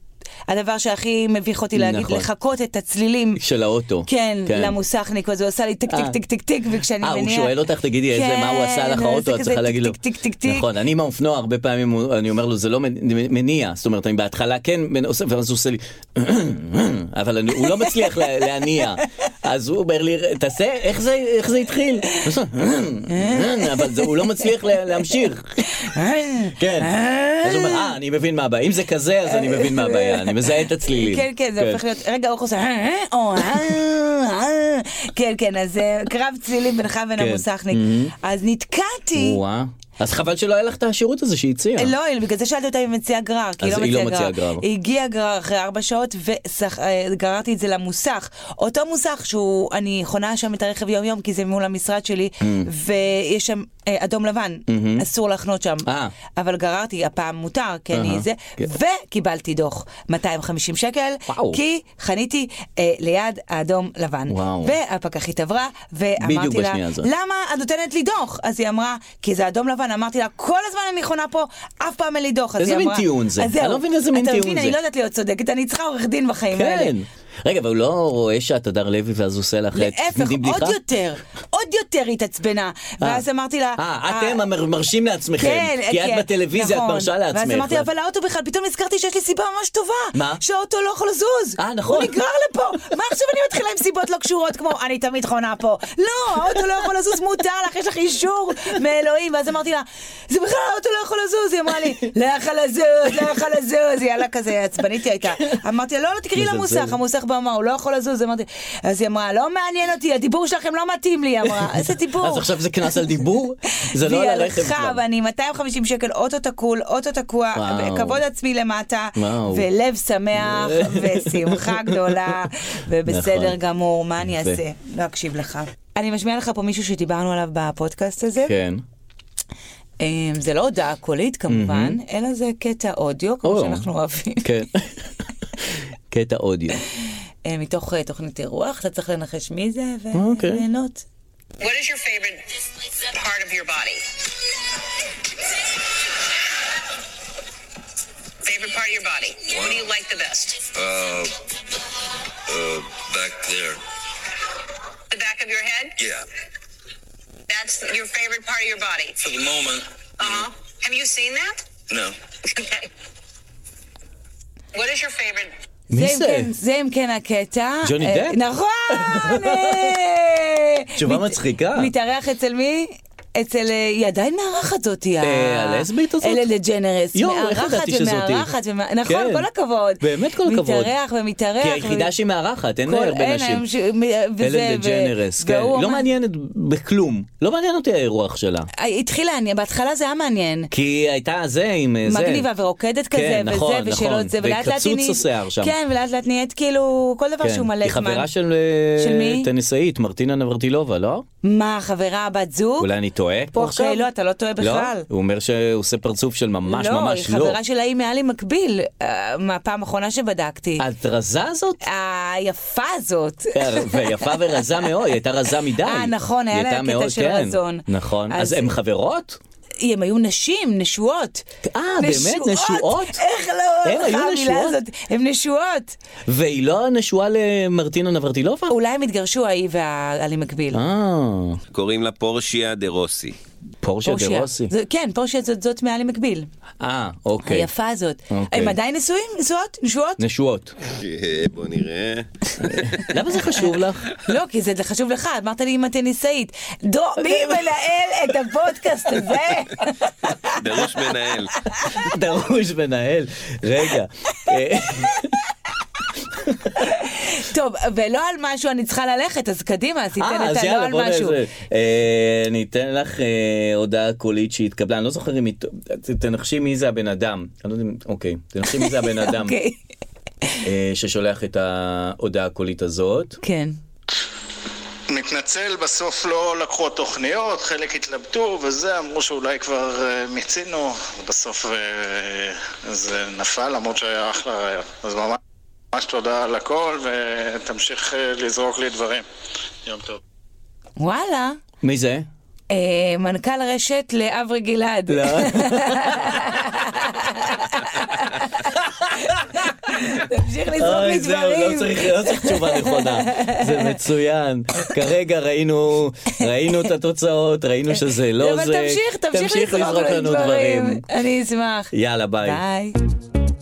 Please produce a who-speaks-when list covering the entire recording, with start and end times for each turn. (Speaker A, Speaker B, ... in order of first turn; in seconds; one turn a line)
Speaker A: 0.5-3.4
Speaker B: 1.7-2.3
Speaker B: 3.4-4.8
Speaker A: 4.0-7.5
Speaker B: 5.9-6.2
Speaker B: 7.0-25.6
Speaker A: 8.1-10.7
Speaker A: 17.6-18.8
Speaker A: 23.1-24.5
Speaker A: 25.7-27.9
Speaker B: 26.6-31.8
Speaker A: 29.3-39.4
Speaker B: 37.2-38.1
Speaker B: 39.2-41.9
Speaker A: 41.8-76.9
Speaker B: 43.6-44.6
Speaker B: 52.4-52.7
Speaker B: 54.7-55.0
Speaker B: 55.8-56.1
Speaker B: 57.9-58.7
Speaker B: 61.3-61.6
Speaker B: 64.3-64.7
Speaker B: 66.2-67.1
Speaker B: 72.6-74.8
Speaker B: 76.5-80.8
Speaker A: 79.7-84.4
Speaker B: 83.8-87.9
Speaker A: 85.4-112.5
Speaker B: 90.1-90.4
Speaker B: 91.6-92.2
Speaker B: 106.3-107.0
Speaker B: 112.2-115.0
Speaker A: 113.9-128.5
Speaker B: 117.5-118.2
Speaker B: 119.2-119.7
Speaker B: 120.3-122.4
Speaker B: 123.1-123.5
Speaker B: 124.2-124.6
Speaker B: 128.4-128.8
Speaker A: 130.0-134.6
Speaker B: 131.5-132.0
Speaker B: 133.4-133.8
Speaker B: 134.4-135.1
Speaker B: 136.1-136.8
Speaker A: 137.4-141.0
Speaker B: 140.1-140.6
Speaker C: 141.6-142.5
Speaker C: 143.0-144.0
Speaker C: 148.4-150.7
Speaker D: 149.5-149.9
Speaker D: 150.7-151.3
Speaker D: 152.5-153.8
Speaker C: 155.1-155.9
Speaker D: 156.0-156.2
Speaker C: 157.5-159.6
Speaker D: 159.2-160.4
Speaker C: 160.2-161.6
Speaker D: 161.9-162.1
Speaker C: 164.7-165.5
Speaker B: 165.9-166.5
Speaker A: 165.9-182.1
Speaker B: 167.8-170.0
Speaker B: 171.0-171.9
Speaker B: 175.2-176.5
Speaker B: 177.1-178.5
Speaker B: 179.0-179.5
Speaker B: 180.0-180.9
Speaker B: 181.6-183.7
Speaker A: 182.8-186.1
Speaker B: 184.4-188.7
Speaker A: 188.8-190.7
Speaker B: 190.7-192.5
Speaker A: 192.1-198.3
Speaker B: 193.1-195.7
Speaker B: 197.4-201.2
Speaker A: 199.0-199.5
Speaker A: 201.4-202.9
Speaker B: 202.8-204.1
Speaker A: 203.5-205.1
Speaker B: 204.6-207.6
Speaker A: 206.7-210.8
Speaker B: 210.8-211.8
Speaker A: 211.8-214.6
Speaker B: 213.5-219.4
Speaker A: 215.8-218.7
Speaker A: 219.8-221.4
Speaker B: 221.6-223.2
Speaker A: 222.0-225.9
Speaker B: 223.8-224.8
Speaker B: 226.3-228.7
Speaker A: 228.7-230.8
Speaker B: 230.7-231.6
Speaker E: 231.7-233.3
Speaker B: 233.8-234.7
Speaker A: 234.0-236.5
Speaker B: 236.8-237.7
Speaker A: 237.4-240.2
Speaker B: 238.3-238.8
Speaker B: 240.2-240.8
Speaker E: 240.9-243.0
Speaker B: 242.6-244.1
Speaker A: 244.2-250.5
Speaker B: 247.2-247.8
Speaker E: 250.6-251.5
Speaker B: 251.8-255.4
Speaker B: 256.1-256.8
Speaker A: 256.8-261.4
Speaker B: 260.1-269.6
Speaker A: 268.7-269.8
Speaker B: 270.6-273.4
Speaker A: 273.4-273.8
Speaker F: 275.1-285.4
Speaker F: 285.9-289.2
Speaker F: 289.8-290.2
Speaker A: 291.0-291.6
Speaker B: 291.8-292.3
Speaker A: 292.7-304.0
Speaker B: 295.1-296.8
Speaker B: 299.0-299.6
Speaker B: 300.8-311.0
Speaker A: 308.4-312.9
Speaker B: 311.9-312.6